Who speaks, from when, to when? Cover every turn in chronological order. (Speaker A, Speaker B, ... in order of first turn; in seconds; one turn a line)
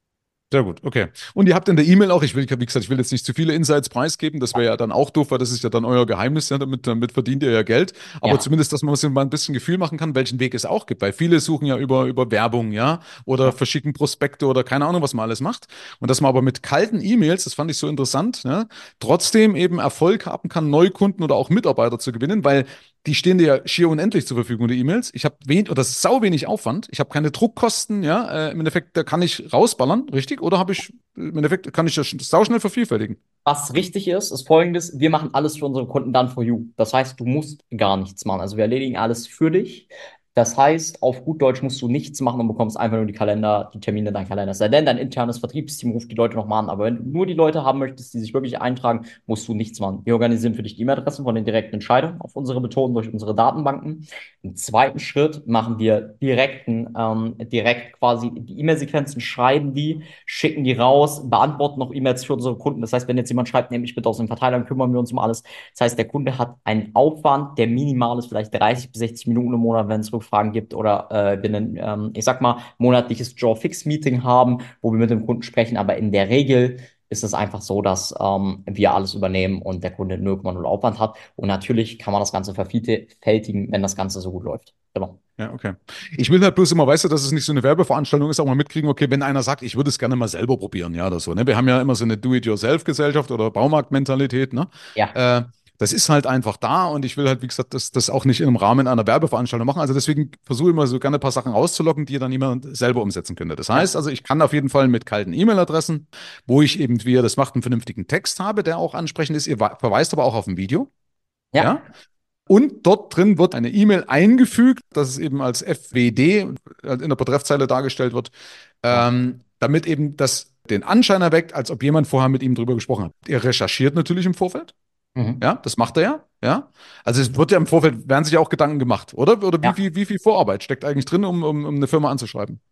Speaker A: 0.5-33.2
Speaker B: 33.4-85.2
Speaker A: 85.4-110.9
Speaker B: 111.5-111.8
Speaker A: 111.6-111.8
Speaker A: 112.5-118.3
Speaker A: 118.8-124.7
Speaker B: 125.2-125.4
Speaker A: 125.4-132.6